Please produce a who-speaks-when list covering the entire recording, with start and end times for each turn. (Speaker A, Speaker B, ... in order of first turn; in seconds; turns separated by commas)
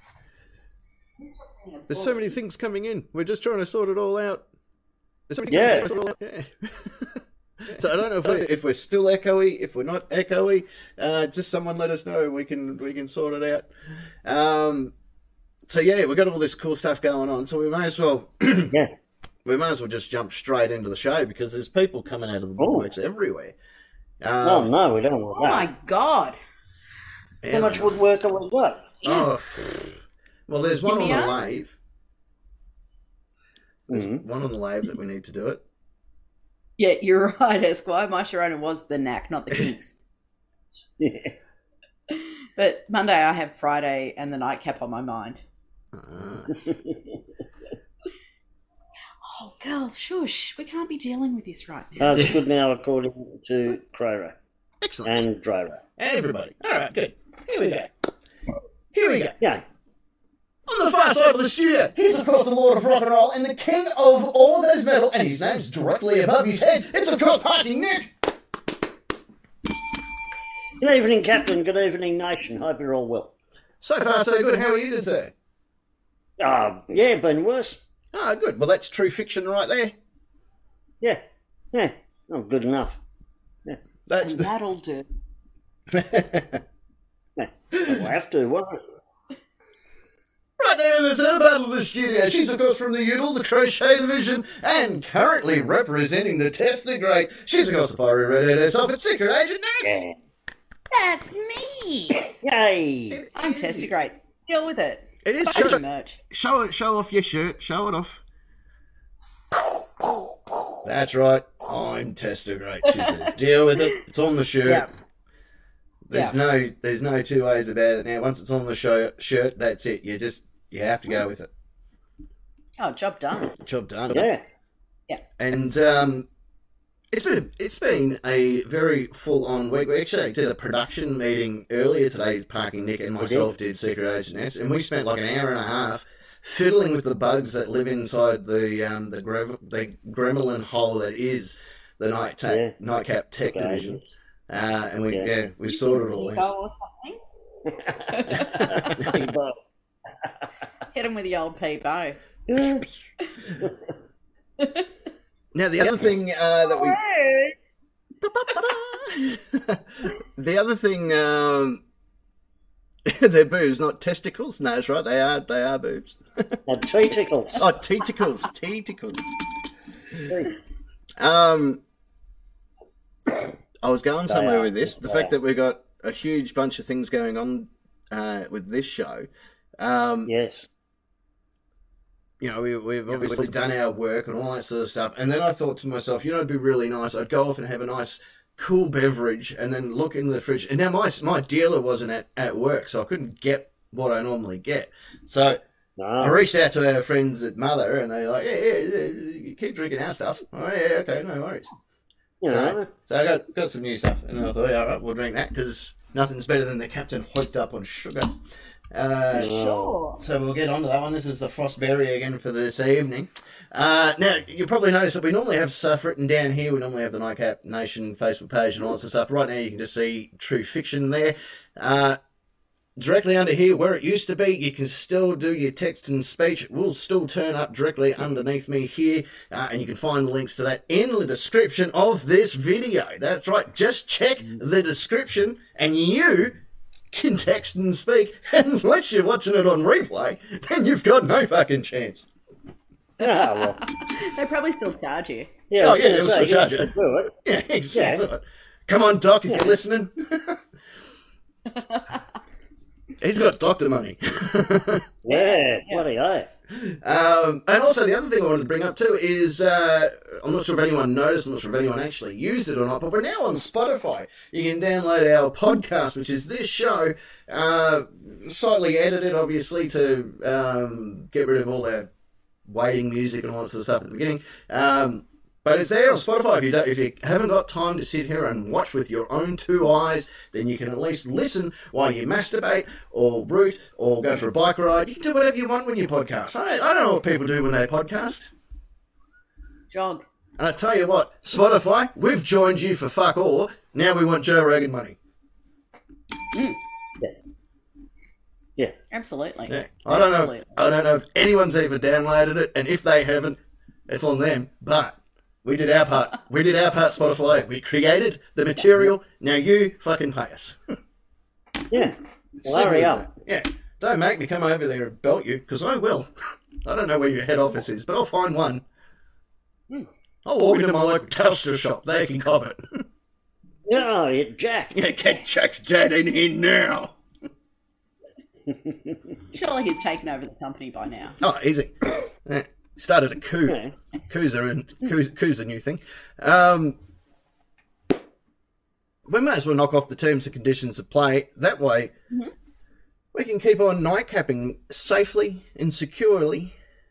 Speaker A: 1.2-2.3, Speaker B: 1.9-4.4, Speaker B: 5.3-13.7, Speaker C: 5.5-6.0, Speaker B: 14.2-14.9, Speaker B: 15.7-18.7, Speaker B: 19.4-23.5, Speaker C: 22.6-22.9, Speaker B: 24.2-24.7, Speaker C: 24.4-25.7, Speaker A: 25.4-26.4, Speaker B: 27.4-28.0, Speaker C: 27.5-28.9, Speaker A: 29.0-29.3, Speaker B: 29.0-29.9, Speaker B: 30.5-31.8, Speaker A: 30.8-31.4, Speaker B: 33.9-35.6, Speaker C: 33.9-34.2, Speaker A: 36.8-40.0, Speaker C: 40.7-41.3, Speaker A: 42.1-45.4, Speaker B: 45.9-46.6, Speaker C: 46.6-47.0, Speaker A: 49.2-52.2, Speaker C: 52.0-54.4, Speaker B: 54.8-55.3, Speaker C: 55.0-55.8, Speaker B: 56.0-57.9, Speaker B: 58.9-59.4, Speaker B: 60.7-68.1, Speaker C: 70.8-73.3, Speaker B: 73.8-75.3, Speaker C: 76.4-77.8, Speaker B: 78.1-80.0, Speaker C: 81.0-83.0, Speaker B: 84.1-84.5, Speaker A: 84.2-85.1, Speaker B: 85.9-86.6, Speaker C: 87.4-88.8, Speaker B: 87.7-88.0, Speaker B: 90.6-100.0, Speaker C: 99.8-100.1, Speaker A: 100.9-102.3, Speaker C: 102.4-103.2, Speaker B: 103.1-103.9, Speaker A: 103.3-106.2, Speaker B: 105.2-108.2, Speaker B: 110.8-114.9, Speaker A: 112.9-113.2, Speaker B: 116.1-121.5, Speaker A: 122.8-123.6, Speaker B: 123.6-124.3, Speaker C: 124.1-124.4, Speaker B: 125.4-126.3, Speaker B: 127.1-146.4, Speaker C: 133.2-133.5, Speaker C: 142.5-142.7, Speaker C: 143.5-144.1, Speaker A: 145.8-147.2, Speaker C: 147.6-149.6, Speaker A: 148.1-148.8, Speaker B: 148.3-149.3, Speaker A: 150.9-152.2, Speaker C: 152.5-152.9, Speaker A: 154.6-154.9, Speaker B: 155.5-157.0, Speaker C: 156.7-157.5, Speaker B: 158.2-161.8, Speaker B: 163.1-166.6, Speaker C: 166.7-167.7, Speaker B: 167.5-169.2, Speaker C: 170.2-170.5, Speaker B: 171.2-171.8, Speaker B: 173.8-179.3, Speaker C: 174.3-175.3, Speaker B: 179.8-180.3, Speaker C: 180.2-180.7, Speaker B: 182.4-195.6, Speaker C: 183.1-183.5, Speaker C: 196.0-196.4, Speaker B: 196.2-201.7, Speaker C: 202.4-202.9, Speaker B: 202.5-208.3, Speaker B: 208.9-209.6, Speaker C: 209.3-210.0, Speaker A: 209.4-210.2, Speaker B: 210.2-222.2, Speaker B: 223.0-236.6, Speaker B: 237.1-242.3, Speaker C: 243.2-243.8, Speaker A: 243.2-245.5, Speaker C: 245.7-247.3, Speaker B: 245.7-250.6, Speaker C: 247.9-248.2, Speaker C: 249.5-249.7, Speaker A: 251.7-252.0, Speaker B: 253.2-255.0, Speaker C: 255.2-256.5, Speaker A: 255.3-256.0, Speaker B: 256.7-272.1, Speaker B: 272.6-288.5, Speaker A: 289.9-290.2, Speaker B: 290.6-295.2, Speaker A: 296.5-296.8, Speaker A: 299.1-300.7, Speaker B: 299.7-310.8, Speaker C: 311.9-313.3, Speaker B: 312.6-316.3, Speaker B: 316.8-318.8, Speaker B: 320.4-323.0, Speaker C: 323.9-325.0, Speaker B: 324.9-327.1, Speaker C: 328.7-329.3, Speaker A: 329.5-331.4, Speaker B: 331.4-337.0, Speaker C: 333.6-333.9, Speaker B: 339.3-342.1, Speaker B: 343.3-346.7